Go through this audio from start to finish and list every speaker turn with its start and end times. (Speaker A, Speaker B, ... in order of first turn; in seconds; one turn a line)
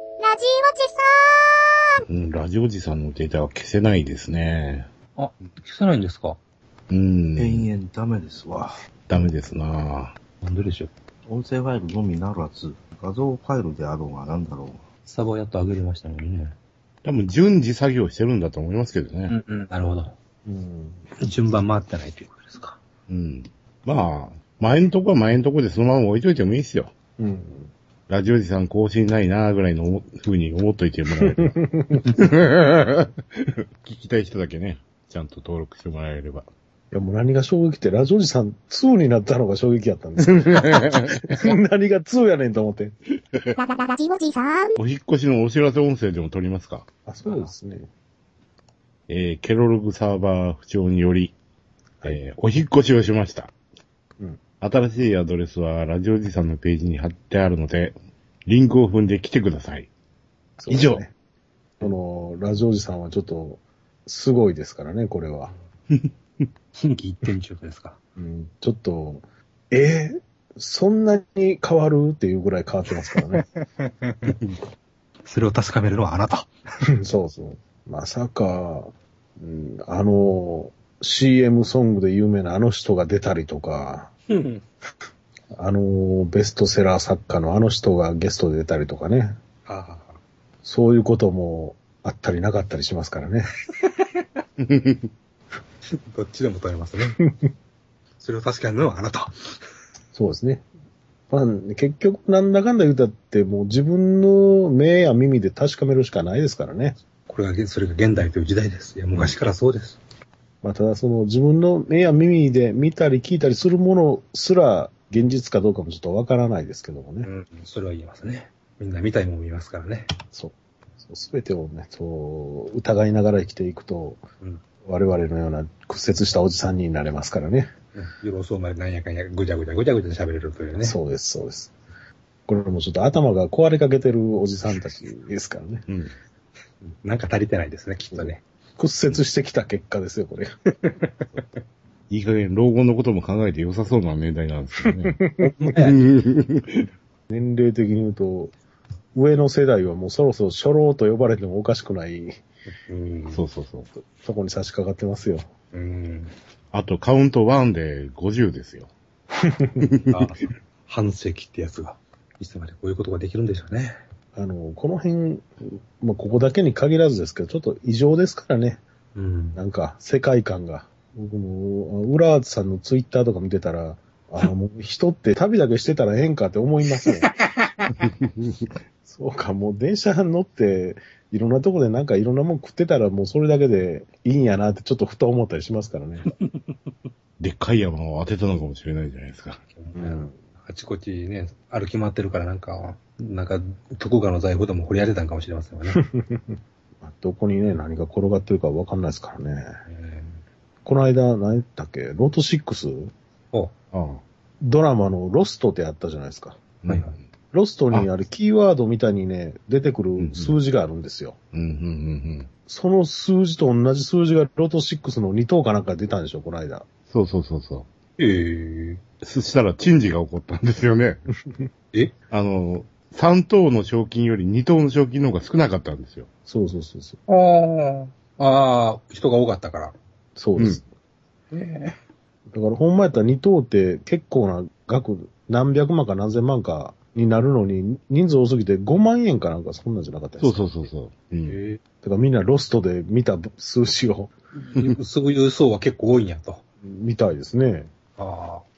Speaker A: 0.2-2.0
Speaker B: 2.1-4.9
Speaker C: 5.2-6.4
Speaker B: 6.9-7.7
Speaker D: 7.4-8.8
Speaker B: 9.1-10.2
Speaker C: 10.4-10.9
Speaker D: 11.2-14.8
Speaker C: 15.1-16.5
Speaker B: 17.0-19.3
Speaker C: 19.3-20.1
Speaker E: 20.4-21.0
Speaker C: 21.2-22.8
Speaker B: 23.1-26.9
Speaker E: 27.2-27.7
Speaker B: 28.1-31.5
Speaker E: 31.2-32.0
Speaker B: 32.2-33.1
Speaker B: 33.8-36.5
Speaker E: 36.9-42.9
Speaker B: 40.5-41.2
Speaker A: 43.5-44.8
Speaker B: 44.8-46.9
Speaker E: 47.0-47.9
Speaker C: 47.2-47.5
Speaker B: 49.1-51.4
Speaker B: 52.0-53.5
Speaker B: 54.6-59.9
Speaker E: 60.6-61.1
Speaker B: 60.7-61.0
Speaker E: 61.8-65.5
Speaker C: 66.8-68.0
Speaker E: 68.2-73.4
Speaker C: 73.0-74.3
Speaker C: 75.2-76.5
Speaker E: 77.0-84.1
Speaker C: 84.3-84.6
Speaker E: 85.5-89.4
Speaker C: 89.7-90.2
Speaker E: 90.6-93.5
Speaker C: 93.8-94.2
Speaker B: 94.6-95.1
Speaker C: 96.1-97.2
Speaker C: 98.2-99.3
Speaker E: 100.1-100.7
Speaker E: 101.3-107.0
Speaker C: 107.2-110.0
Speaker E: 110.6-117.3
Speaker C: 117.2-120.1
Speaker E: 121.0-124.2
Speaker E: 124.8-127.7
Speaker C: 127.9-131.0
Speaker E: 130.8-131.7
Speaker E: 132.5-135.8
Speaker B: 135.9-136.1
Speaker C: 136.8-138.4
Speaker E: 138.1-140.5
Speaker C: 140.8-141.4
Speaker B: 142.1-145.2
Speaker E: 144.9-145.8
Speaker C: 145.4-146.0
Speaker B: 145.8-146.8
Speaker E: 147.3-148.5
Speaker E: 149.1-152.4
Speaker C: 152.9-153.4
Speaker B: 153.3-153.9
Speaker E: 153.9-155.5
Speaker C: 155.7-156.3
Speaker B: 156.7-158.9
Speaker E: 159.4-159.8
Speaker C: 160.1-163.9
Speaker E: 164.3-168.8
Speaker C: 169.1-169.6
Speaker E: 169.6-177.3
Speaker C: 176.9-177.7
Speaker B: 178.0-178.5
Speaker E: 179.0-186.3
Speaker C: 186.2-186.9
Speaker B: 187.4-189.6
Speaker C: 189.7-196.0
Speaker E: 189.9-190.3
Speaker E: 195.9-199.7
Speaker C: 199.9-200.4
Speaker E: 200.8-203.1
Speaker B: 203.9-204.2
Speaker E: 204.6-206.6
Speaker B: 206.8-207.1
Speaker C: 206.9-207.2
Speaker E: 207.5-211.4
Speaker B: 210.2-210.6
Speaker B: 211.5-212.5
Speaker E: 212.7-216.8
Speaker B: 217.1-217.9
Speaker C: 218.2-219.0
Speaker B: 219.2-221.2
Speaker B: 222.3-226.3
Speaker E: 226.5-227.2
Speaker C: 227.3-229.9
Speaker E: 230.3-230.9
Speaker C: 231.5-231.9
Speaker E: 232.5-240.7
Speaker B: 240.4-241.6
Speaker C: 241.5-241.8
Speaker E: 242.0-244.3
Speaker C: 244.6-246.6
Speaker E: 246.8-247.9
Speaker C: 248.2-248.6